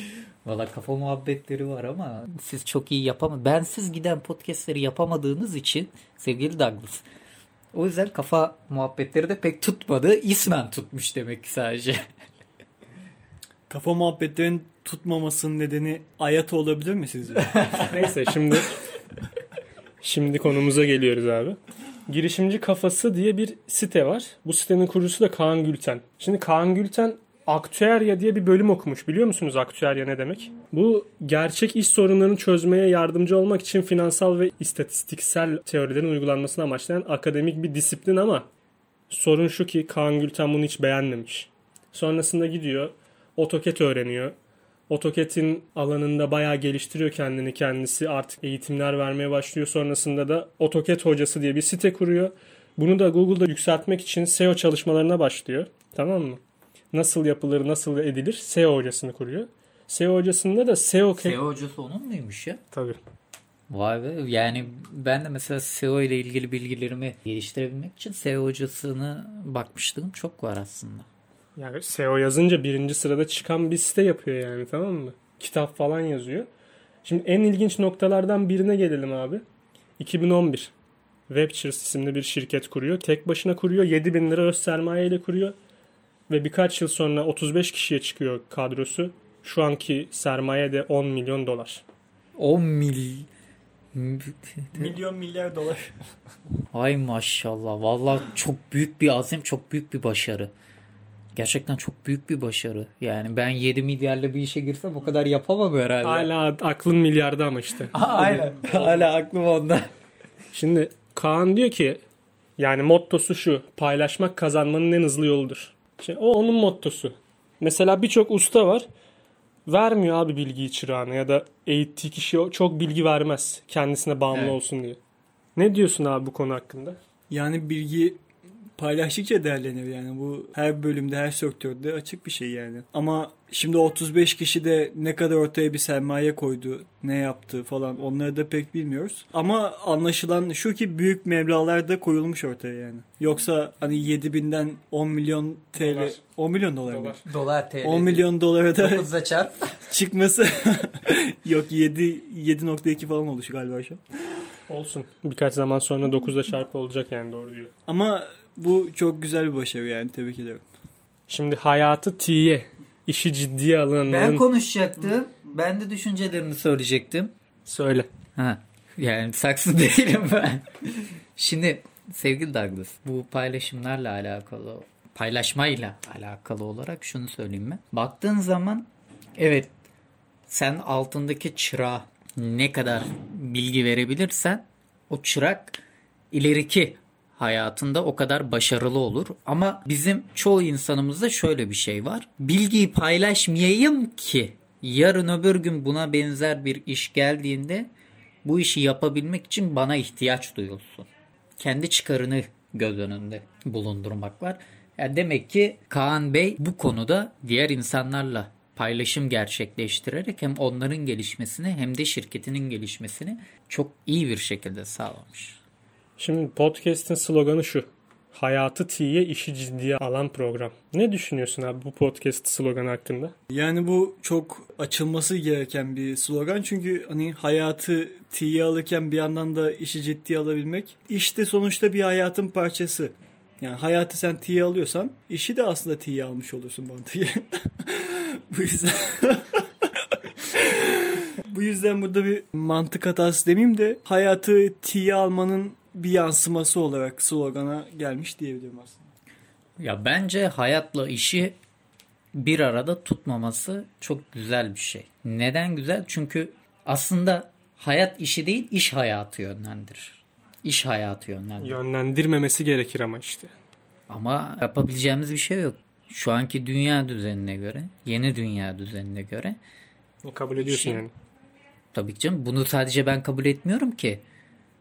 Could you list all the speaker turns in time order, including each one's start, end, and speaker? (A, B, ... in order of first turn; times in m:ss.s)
0:00.4-0:07.0 A
0:07.7-0:12.0 A
0:13.7-0:17.6 B
0:17.5-0:17.9 A
0:17.8-0:18.7 C
0:20.0-0:38.5 C
0:39.1-0:44.3 C
0:44.9-0:56.4 C
0:56.9-1:01.4 C
1:01.2-1:02.6 A
1:02.7-1:03.0 C
1:03.7-1:11.1 A
1:11.6-1:16.5 C
1:17.0-1:19.4 C
1:20.0-1:20.7 C
1:21.3-1:25.6 C
1:26.3-1:31.8 C
1:32.4-1:33.3 A
1:33.9-1:35.0 A
1:34.8-1:35.9 B
1:36.7-1:40.5 A
1:41.4-1:46.3 A
1:46.0-1:48.0 C
1:47.9-1:49.9 A
1:48.0-1:49.1 B
1:50.5-1:52.0 C
1:52.6-1:58.9 C
1:59.7-2:05.0 C
2:05.6-2:07.0 C
2:07.3-2:08.2 B
2:08.8-2:27.3 B
2:25.8-2:26.2 C
2:26.9-2:27.2 C
2:27.3-2:29.8 A
2:27.8-2:29.1 B
2:29.9-2:34.0 B
2:34.7-2:37.7 C
2:37.9-2:40.6 B
2:41.3-2:44.5 C
2:44.1-2:47.3 A
2:47.7-2:48.1 C
2:48.4-2:59.7 A
3:00.5-3:05.8 A
3:06.3-3:17.9 A
3:18.4-3:35.6 A
3:36.2-3:43.3 C
3:43.5-4:09.1 B
4:09.8-4:11.6 A
4:12.3-4:21.8 A
4:21.6-4:23.5 C
4:24.1-4:29.6 A
4:30.2-4:31.1 C
4:30.6-4:31.0 A
4:31.9-4:34.2 A